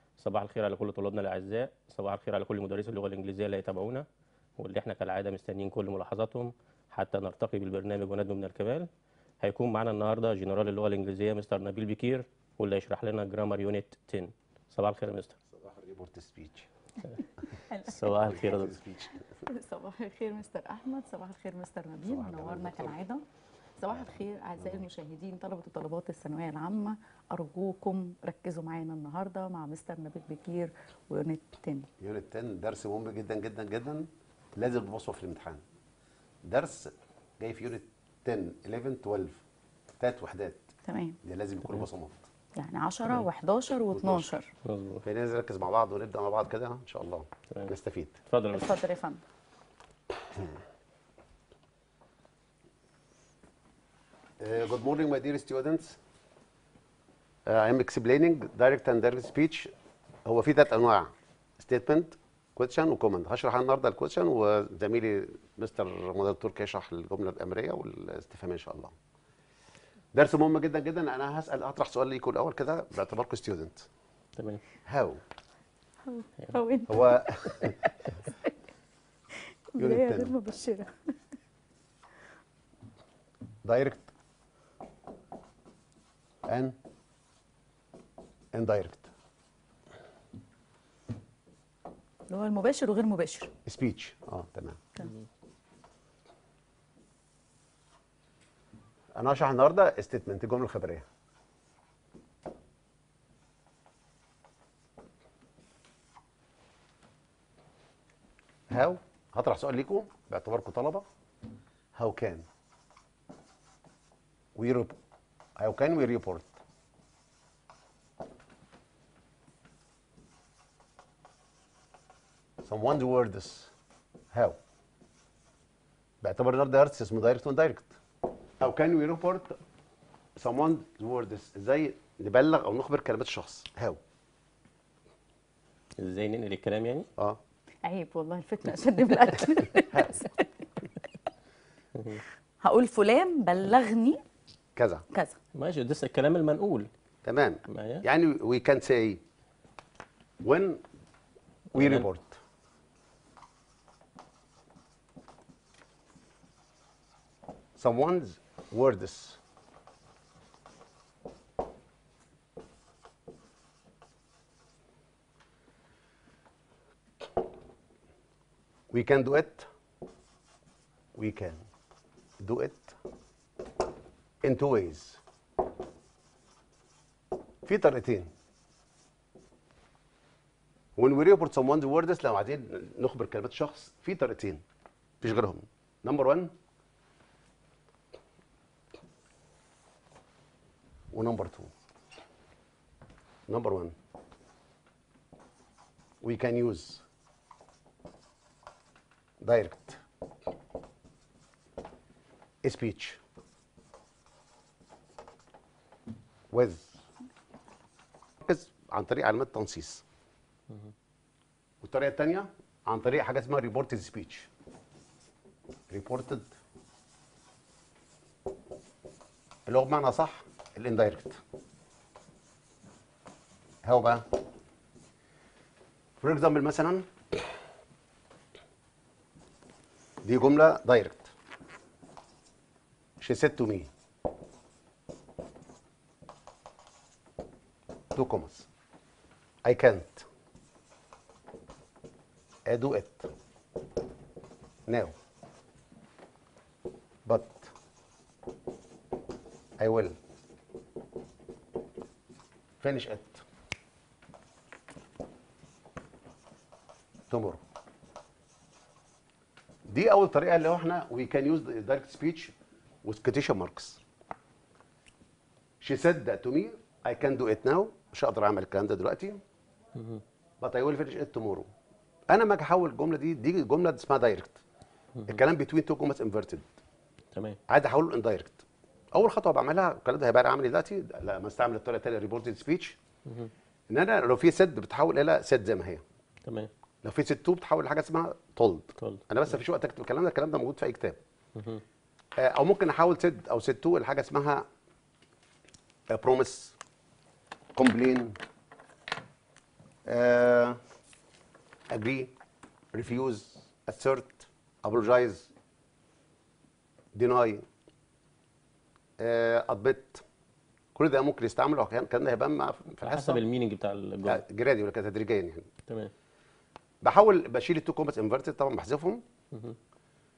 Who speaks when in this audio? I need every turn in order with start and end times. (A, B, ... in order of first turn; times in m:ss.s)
0:00.2-0:04.1 A
0:04.6-0:08.9 A
0:09.4-0:15.4 A
0:15.5-0:16.7 B
0:17.5-0:18.4 C
0:17.8-0:18.7 A
0:18.2-0:19.4 B
0:19.4-0:23.2 C
0:22.0-0:23.0 B
0:23.8-0:31.9 C
0:23.9-0:24.8 B
0:32.0-0:35.6 B
0:36.4-0:39.4 B
0:40.0-0:42.3 B
0:40.9-0:41.2 C
0:42.6-0:44.5 C
0:43.9-0:44.3 B
0:44.6-0:45.0 A
0:45.0-0:48.2 B
0:48.3-0:48.8 A
0:48.5-0:49.2 C
0:54.4-0:56.0 B
0:57.5-0:59.7 B
1:00.3-1:09.0 B
1:10.1-1:13.9 B
1:14.4-1:14.6 A
1:14.9-1:15.2 B
1:16.0-1:18.5 C
1:16.9-1:17.8 B
1:19.7-1:21.2 C
1:19.8-1:20.4 B
1:23.6-1:24.1 B
1:26.5-1:26.8 B
1:28.5-1:29.1 B
1:32.3-1:33.5 C
1:33.7-1:34.8 B
1:39.2-1:41.1 B
1:48.7-1:51.1 B
1:52.0-1:52.5 B
1:54.6-1:55.0 B
1:55.6-1:56.6 B
2:02.6-2:03.7 B
2:04.3-2:04.6 B
2:06.2-2:08.0 B
2:08.6-2:09.6 B
2:10.4-2:14.0 B
2:16.0-2:17.1 A
2:17.8-2:20.5 C
2:19.9-2:20.2 B
2:22.0-2:22.2 A
2:22.6-2:24.2 C
2:24.8-2:25.0 B
2:25.1-2:25.4 C
2:25.5-2:26.9 A
2:27.2-2:29.2 B
2:27.7-2:28.0 A
2:30.4-2:30.8 B
2:31.7-2:32.1 A
2:31.7-2:32.4 B
2:37.8-2:39.4 B
2:48.9-2:49.7 B
2:51.2-2:51.6 B
2:52.4-2:53.0 B
2:54.4-2:55.2 B
2:57.6-2:58.3 B
3:01.0-3:04.6 B
3:05.2-3:06.5 B
3:11.1-3:11.7 B
3:13.5-3:14.0 B
3:16.2-3:17.0 B
3:19.4-3:20.0 B
3:22.6-3:23.2 B
3:26.5-3:27.0 B
3:28.4-3:30.0 B
3:31.8-3:34.5 B
3:35.9-3:36.6 B
3:39.7-3:41.4 B
3:43.8-3:44.3 B
3:46.2-3:47.5 B
3:50.2-3:51.3 B
3:53.2-3:53.9 B
3:58.2-3:58.7 B
3:59.6-4:00.3 B
4:02.7-4:03.3 B
4:04.9-4:05.2 B
4:07.3-4:07.7 B
4:09.8-4:10.2 B
4:12.8-4:13.4 B
4:17.3-4:17.6 B
4:19.9-4:24.0 B
4:25.8-4:29.4 B
4:30.0-4:30.2 A
4:30.6-4:31.7 B
4:32.3-4:34.6 B
4:35.3-4:36.7 B
4:37.3-4:37.6 A
4:37.7-4:43.0 B
4:43.3-4:43.5 A
4:43.9-4:46.0 B
4:46.4-4:46.7 A
4:47.0-4:51.2 B
4:49.0-4:49.3 A
4:51.6-4:51.8 A
4:52.4-4:54.7 B
4:56.1-4:56.8 B
4:57.8-4:58.4 B
5:00.1-5:00.8 B
5:01.9-5:02.3 B
5:02.9-5:05.5 B
5:07.1-5:07.6 B
5:09.2-5:10.2 B
5:11.0-5:13.4 B
5:13.0-5:14.4 A
5:14.2-5:15.7 B
5:15.9-5:16.1 A
5:17.0-5:19.2 B
5:19.5-5:19.8 A